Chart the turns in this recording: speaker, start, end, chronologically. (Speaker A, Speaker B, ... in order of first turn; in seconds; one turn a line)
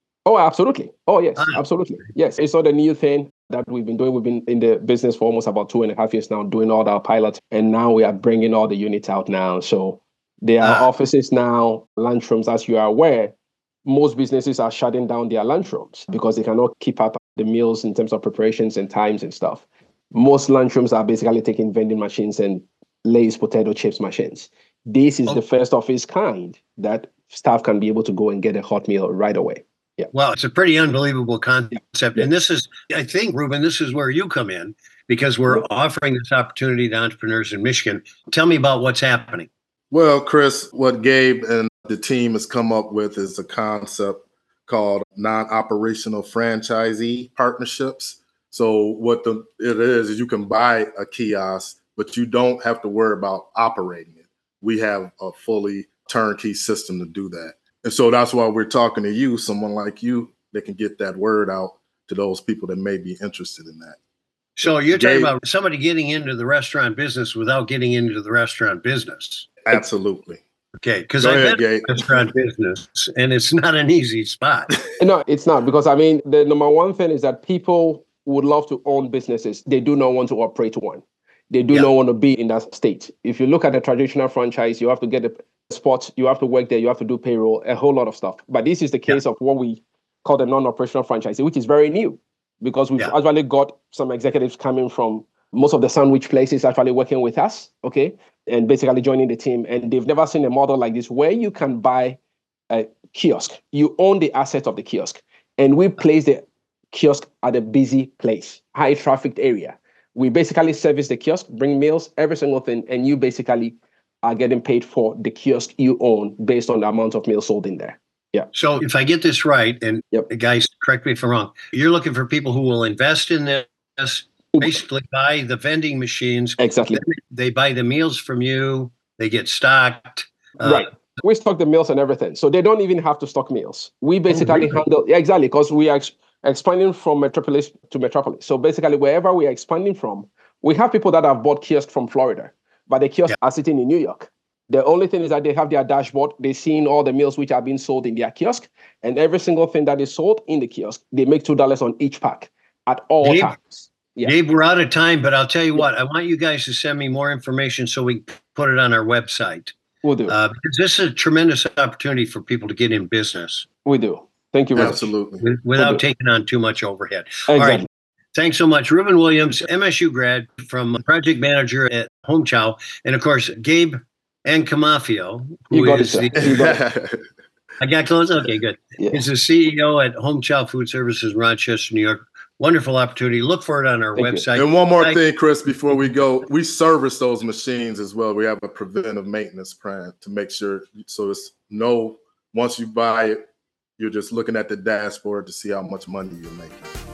Speaker A: 0.2-13.3
Speaker B: 10.6-10.9
Speaker A: 13.8-30.1
Speaker B: 30.1-39.5
Speaker C: 39.9-64.0
Speaker B: 64.6-69.5
Speaker C: 64.6-65.3
Speaker C: 69.6-70.4
Speaker B: 70.8-74.7
Speaker C: 71.2-72.3
Speaker A: 75.0-102.2
Speaker A: 102.7-118.5
Speaker B: 118.5-130.9
Speaker A: 126.6-127.0
Speaker A: 130.6-154.3
Speaker B: 134.3-134.8
Speaker B: 153.2-153.5
Speaker B: 154.2-159.7
Speaker A: 160.0-160.3
Speaker B: 160.3-163.7
Speaker A: 163.8-165.1
Speaker C: 164.7-165.4
Speaker B: 165.4-167.8
Speaker A: 165.8-166.0
Speaker A: 167.5-167.8
Speaker B: 168.3-176.6
Speaker A: 175.7-176.8
Speaker C: 176.4-177.2
Speaker B: 177.8-185.2
Speaker A: 179.0-179.2
Speaker A: 184.2-184.4
Speaker C: 184.6-193.4
Speaker C: 194.0-196.8